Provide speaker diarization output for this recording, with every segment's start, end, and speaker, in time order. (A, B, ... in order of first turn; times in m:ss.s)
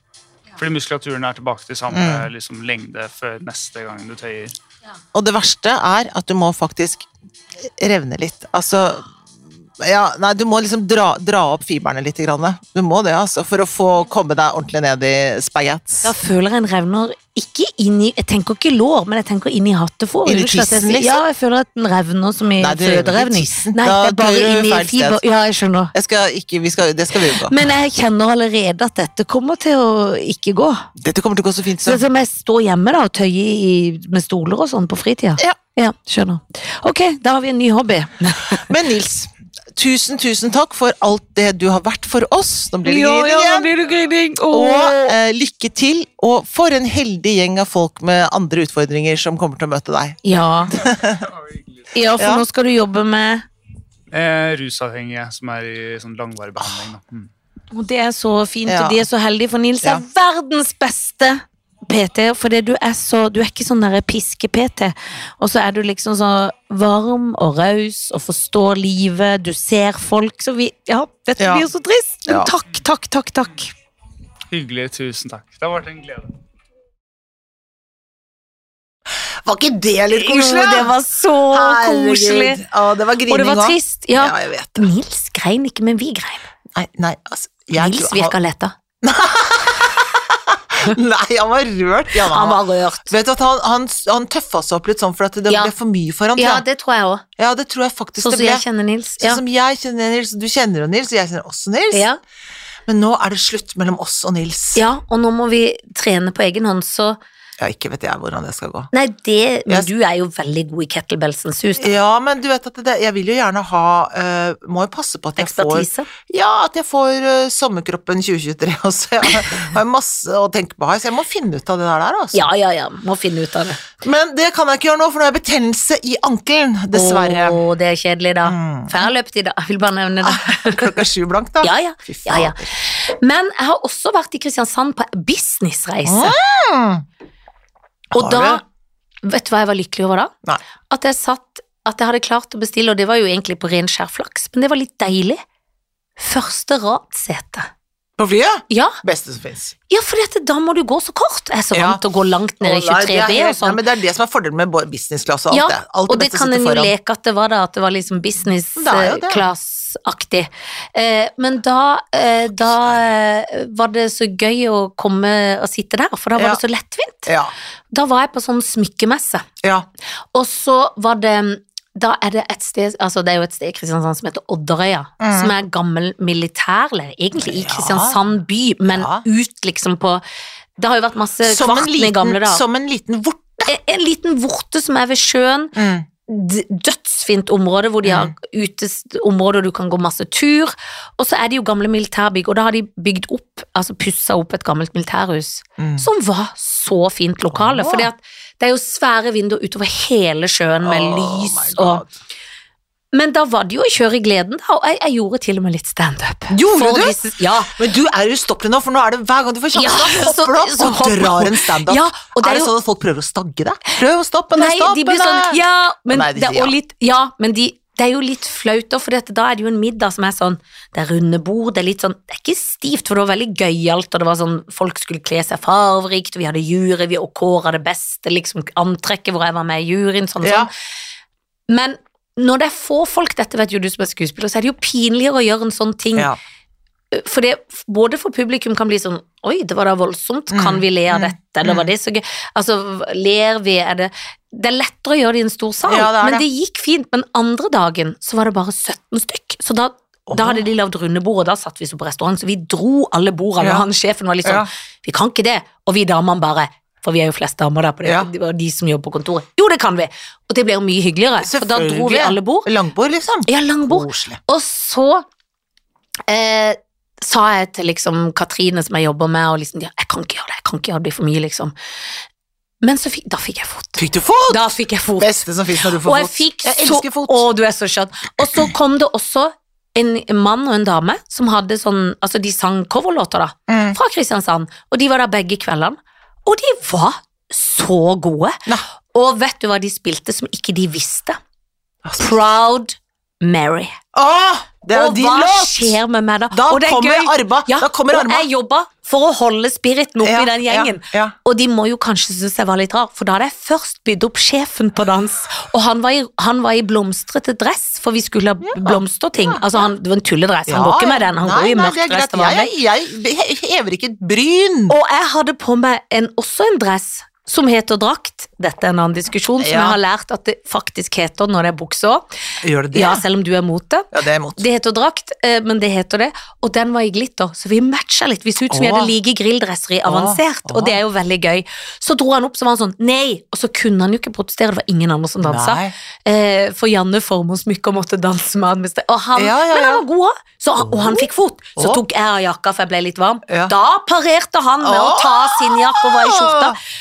0:00.6-0:04.6 A
0:01.9-0:02.3 B
0:05.1-0:07.1 B
0:07.6-0:09.1 B
0:09.8-0:16.2 B
0:16.0-0:25.9 C
0:20.3-0:21.2 B
0:22.6-0:25.2 B
0:25.9-0:27.7 B
0:27.3-0:30.9 C
0:31.0-0:32.0 B
0:31.8-0:38.6 C
0:38.5-0:43.7 B
0:42.8-0:45.2 C
0:44.5-0:51.3 B
0:50.2-0:50.8 C
0:51.9-0:53.4 C
0:52.2-0:52.4 B
0:54.1-0:57.3 A
0:57.7-1:13.7 C
0:58.7-0:59.0 B
1:11.4-1:11.7 B
1:12.3-1:12.5 B
1:14.5-1:16.3 A
1:19.4-1:21.0 B
1:20.1-1:22.6 C
1:21.5-1:24.9 B
1:23.3-1:26.5 C
1:26.8-1:28.3 B
1:27.8-1:28.8 C
1:29.0-1:36.6 B
1:32.2-1:33.1 C
1:35.5-1:35.7 C
1:36.4-1:37.2 C
1:37.4-1:38.6 B
1:38.2-1:39.4 C
1:39.2-1:42.1 B
1:41.9-1:42.2 C
1:42.9-1:44.8 B
1:44.8-1:47.2 C
1:47.6-1:48.9 B
1:48.9-1:51.9 C
1:51.8-2:02.5 B
1:55.4-1:56.1 C
2:02.3-2:03.8 C
2:04.0-2:07.6 B
2:06.9-2:10.9 C
2:08.4-2:09.1 B
2:10.2-2:12.8 B
2:11.6-2:16.4 C
2:16.0-2:17.0 B
2:18.1-2:18.6 C
2:18.1-2:18.6 B
2:19.2-2:20.3 C
2:20.9-2:25.4 C
2:26.2-2:27.7 C
2:28.2-2:29.8 B
2:28.7-2:29.0 C
2:29.9-2:33.8 C
2:31.7-2:32.0 B
2:32.6-2:36.9 B
2:35.5-2:47.3 C
2:38.8-2:39.4 B
2:46.4-2:46.6 B
2:47.3-2:47.5 B
2:47.9-2:49.4 C
2:50.3-3:00.2 C
2:55.2-2:55.5 B
2:57.4-2:58.2 B
2:58.9-2:59.2 B
3:00.8-3:02.6 C
3:01.4-3:03.7 B
3:03.6-3:05.8 C
3:05.8-3:06.1 B
3:06.3-3:22.0 C
3:08.0-3:08.3 B
3:15.8-3:16.1 B
3:17.5-3:18.1 B
3:20.8-3:22.1 B
3:23.1-3:27.8 C
3:26.5-3:27.2 B
3:27.7-3:36.7 B
3:29.7-3:32.7 C
3:34.5-3:50.7 C
3:50.4-3:50.7 B
3:51.7-3:56.3 C
3:57.1-4:22.7 C
4:00.5-4:01.9 B
4:05.9-4:06.5 B
4:10.3-4:10.6 B
4:13.6-4:13.8 B
4:21.4-4:24.4 B
4:23.5-4:25.2 C
4:26.3-4:31.7 C
4:32.8-4:35.3 C
4:34.0-4:37.5 B
4:36.0-4:48.6 C
4:43.7-4:44.0 B
4:49.1-4:51.4 C
4:52.0-4:52.4 B
4:52.2-4:53.9 C
4:54.1-4:56.0 B
4:54.9-5:12.7 C
4:56.5-4:58.5 B
5:00.2-5:01.4 B
5:08.6-5:09.6 B
5:10.7-5:15.0 B
5:14.9-5:22.2 C
5:19.6-5:20.0 B
5:22.6-5:23.2 B
5:22.9-5:46.8 C
5:24.1-5:24.6 B
5:28.7-5:29.1 B
5:30.1-5:31.0 B
5:35.4-5:35.9 B
5:39.4-5:40.0 B
5:40.8-5:42.0 B
5:43.5-5:43.7 B
5:44.8-5:46.8 B